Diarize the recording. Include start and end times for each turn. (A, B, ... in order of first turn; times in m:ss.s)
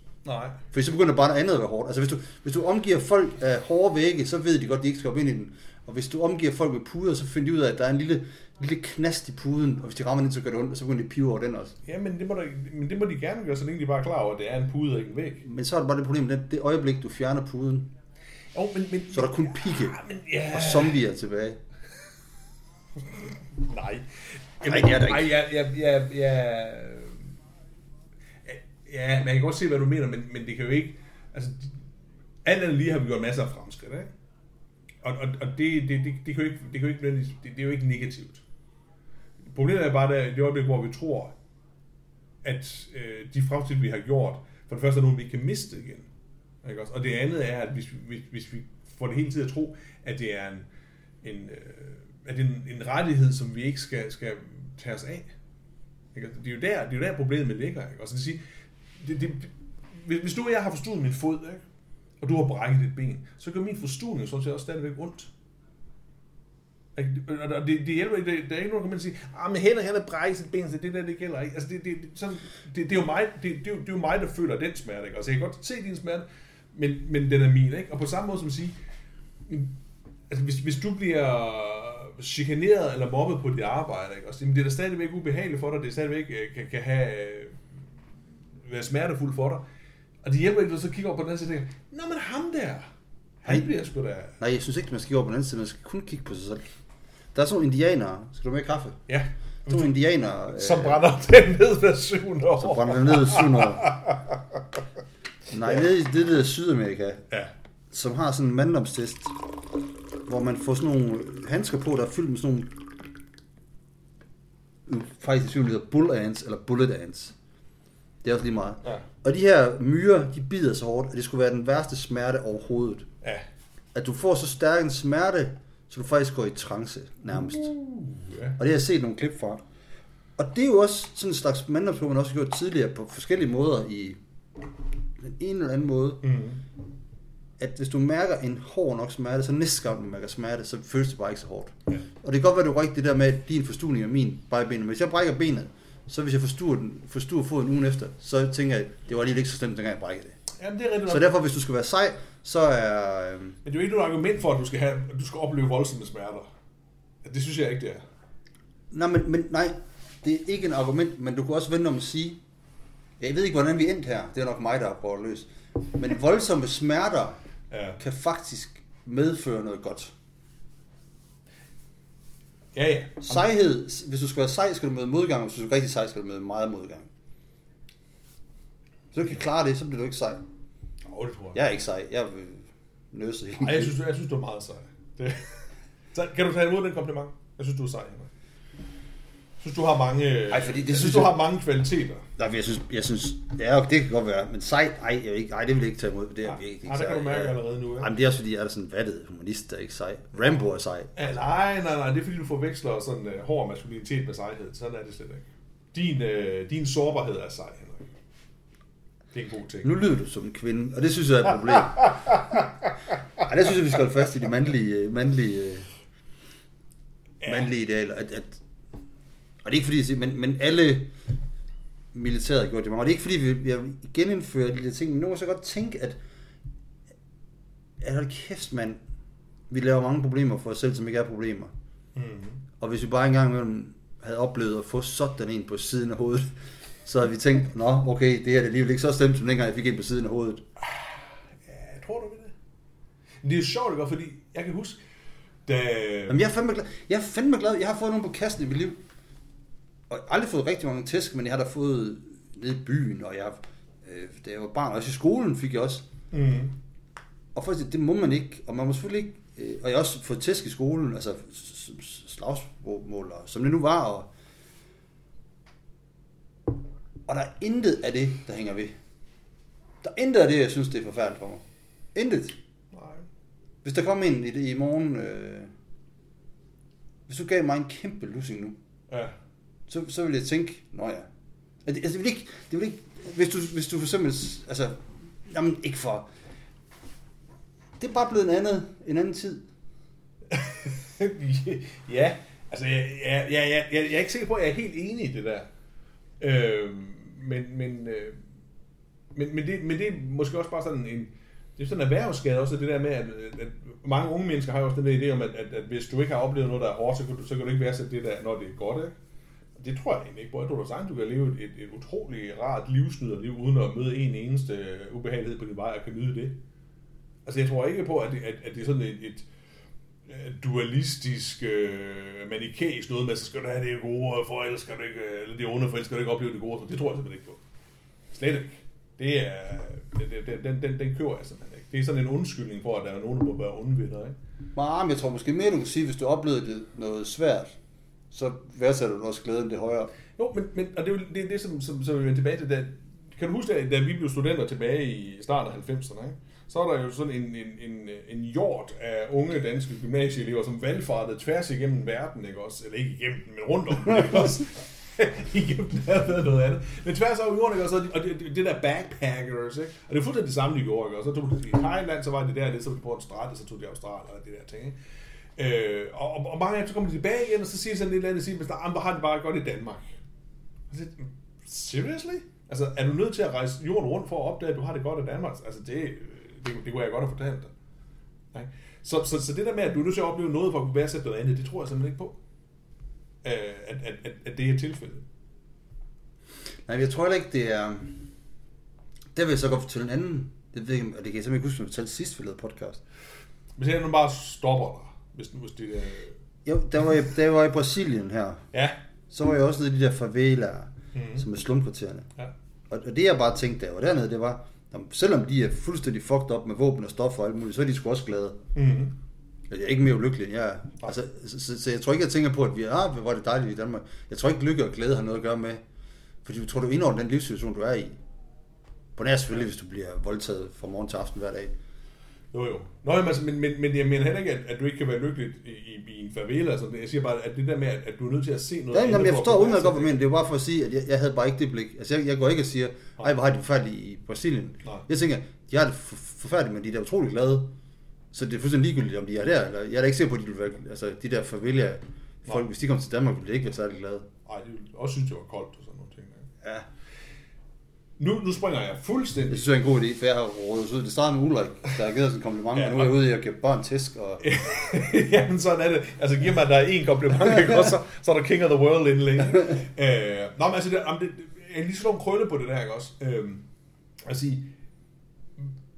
0:00.2-0:00.6 A
0:00.7-0:11.8 B
0:11.8-0:15.4 A
0:15.4-0:17.9 B
0:18.5-0:21.0 A
0:19.1-0:20.0 B
0:20.5-0:21.6 B
0:23.1-0:27.2 A
0:24.6-0:25.3 B
0:28.4-0:31.7 A
0:32.4-0:34.1 A
0:35.0-0:38.4 A
0:39.5-0:41.3 A
0:42.4-0:46.1 A
0:46.6-0:50.7 A
0:51.2-0:55.3 A
0:56.1-0:58.4 A
0:59.0-1:01.6 A
1:02.2-1:05.3 A
1:07.0-1:18.8 A
1:19.5-1:19.7 A
1:20.3-1:27.6 A
1:28.6-1:29.6 A
1:30.2-1:32.9 A
1:33.4-1:34.3 A
1:34.4-1:36.6 B
1:37.3-1:39.0 B
1:39.1-1:40.0 A
1:39.7-1:41.0 B
1:40.5-1:44.6 A
1:42.6-1:43.9 B
1:45.5-1:47.2 B
1:47.9-1:49.4 B
1:50.3-1:52.8 B
1:54.8-1:57.3 B
1:58.2-2:03.1 B
2:03.9-2:07.7 B
2:07.3-2:08.6 A
2:08.6-2:09.6 B
2:10.4-2:14.2 B
2:15.2-2:16.2 B
2:16.2-2:16.6 A
2:17.6-2:30.4 B
2:30.6-2:31.3 A
2:31.1-2:33.6 B
2:33.6-2:36.5 A
2:37.2-2:38.0 A
2:38.9-2:42.4 B
2:43.2-2:47.4 B
2:47.7-2:48.0 A
2:48.0-2:50.1 B
2:52.7-2:53.4 A
2:53.2-2:57.1 B
2:59.1-3:00.4 B
3:01.1-3:01.6 A
3:01.5-3:03.9 B
3:03.6-3:08.3 A
3:09.6-3:12.2 A
3:10.5-3:11.4 B
3:12.4-3:21.2 B
3:16.5-3:18.1 A
3:21.1-3:28.1 A
3:29.3-3:29.9 A
3:29.8-3:32.2 B
3:32.0-3:32.7 A
3:33.4-3:35.9 B
3:37.4-3:37.7 A
3:37.4-3:38.6 B
3:39.6-3:41.1 B
3:42.1-3:46.2 B
3:48.0-3:49.0 B
3:49.7-3:51.7 B
3:52.1-3:52.6 A
3:52.8-4:00.6 B
4:00.8-4:02.5 A
4:03.4-4:05.0 A
4:05.6-4:06.4 A
4:06.3-4:09.0 B
4:10.1-4:16.1 B
4:16.3-4:16.7 A
4:17.5-4:24.3 B
4:27.3-4:28.9 B
4:30.0-4:32.6 B
4:32.9-4:33.2 A
4:33.8-4:35.7 B
4:37.3-4:38.8 B
4:39.9-4:41.3 B
4:41.8-4:46.3 B
4:48.0-4:49.6 B
4:50.5-4:55.7 A
4:56.4-4:58.4 A
4:59.3-5:09.1 A
5:09.8-5:16.6 A
5:17.4-5:19.4 A
5:20.3-5:27.6 A
5:28.3-5:34.4 A
5:34.7-5:37.8 B
5:38.3-5:40.1 B
5:40.4-6:05.0 A
6:05.6-6:10.1 A
6:10.9-6:17.7 A
6:18.5-6:22.4 A
6:23.4-6:25.2 A
6:26.8-6:28.3 B
6:29.3-6:33.0 B
6:33.8-6:36.4 A
6:36.6-6:38.6 B
6:39.3-6:42.3 B
6:41.1-6:41.4 A
6:42.9-6:48.6 B
6:48.7-6:49.1 A
6:49.7-6:55.8 B
6:56.4-6:58.2 B
6:59.2-7:01.7 B
7:02.5-7:10.2 A
7:08.9-7:17.7 B
7:18.3-7:24.2 B
7:24.4-7:26.5 A
7:28.2-7:29.7 A
7:29.5-7:34.4 B
7:32.7-7:33.2 A
7:34.4-7:43.7 A
7:44.2-7:44.7 A